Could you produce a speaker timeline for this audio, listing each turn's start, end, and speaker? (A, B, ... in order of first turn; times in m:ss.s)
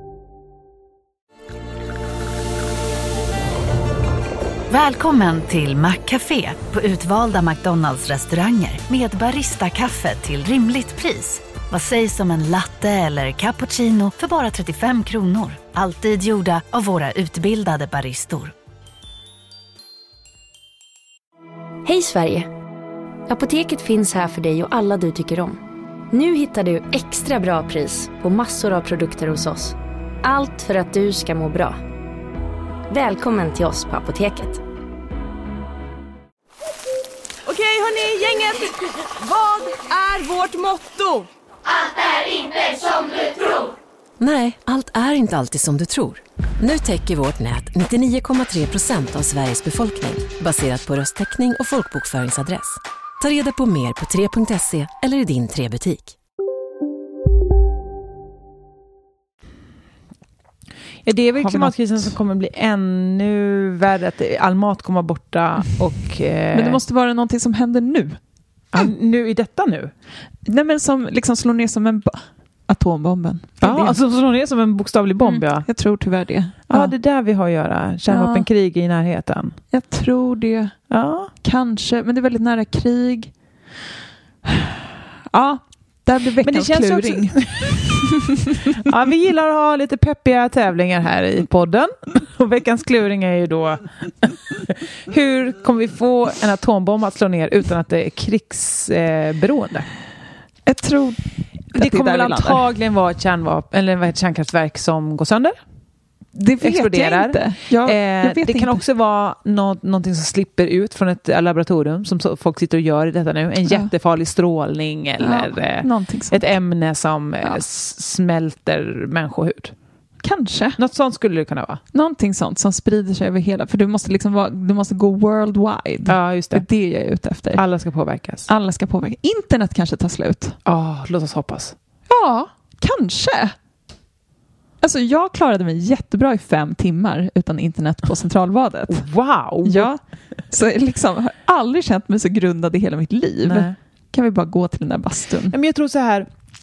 0:04.7-0:18.5 A
0:21.8-0:22.5 B
0:23.3-0:25.6 B
0:26.1-0:31.8 B
0:32.9-0:34.6 B
0:37.4-0:41.3 C
0:42.6-0:43.0 C
0:44.2-0:56.1 D
1:01.0-1:06.8 E
1:01.4-1:01.8 F
1:06.5-1:08.2 F
1:08.7-1:09.9 E
1:10.4-1:14.0 F
1:13.6-1:15.7 E
1:15.2-1:16.9 F
1:16.7-1:19.6 E
1:18.1-1:18.5 F
1:19.7-1:20.7 F
1:20.9-1:21.3 E
1:21.4-1:23.3 F
1:24.4-1:24.8 F
1:25.3-1:28.8 F
1:26.4-1:39.9 E
1:40.6-1:41.2 F
1:41.7-1:42.6 F
1:41.7-1:45.5 E
1:46.3-1:48.8 F
1:46.6-1:59.7 E
1:53.6-1:53.9 F
1:55.2-1:56.5 F
2:00.2-2:00.8 F
2:00.8-2:01.8 E
2:01.9-2:07.6 F
2:06.0-2:06.6 E
2:07.5-2:08.5 E
2:08.5-2:10.6 F
2:10.6-2:11.7 E
2:12.1-2:13.5 F
2:14.8-2:19.0 F
2:18.9-2:19.9 E
2:19.6-2:20.0 F
2:20.5-2:25.5 F
2:23.4-2:23.8 E
2:25.5-2:26.3 E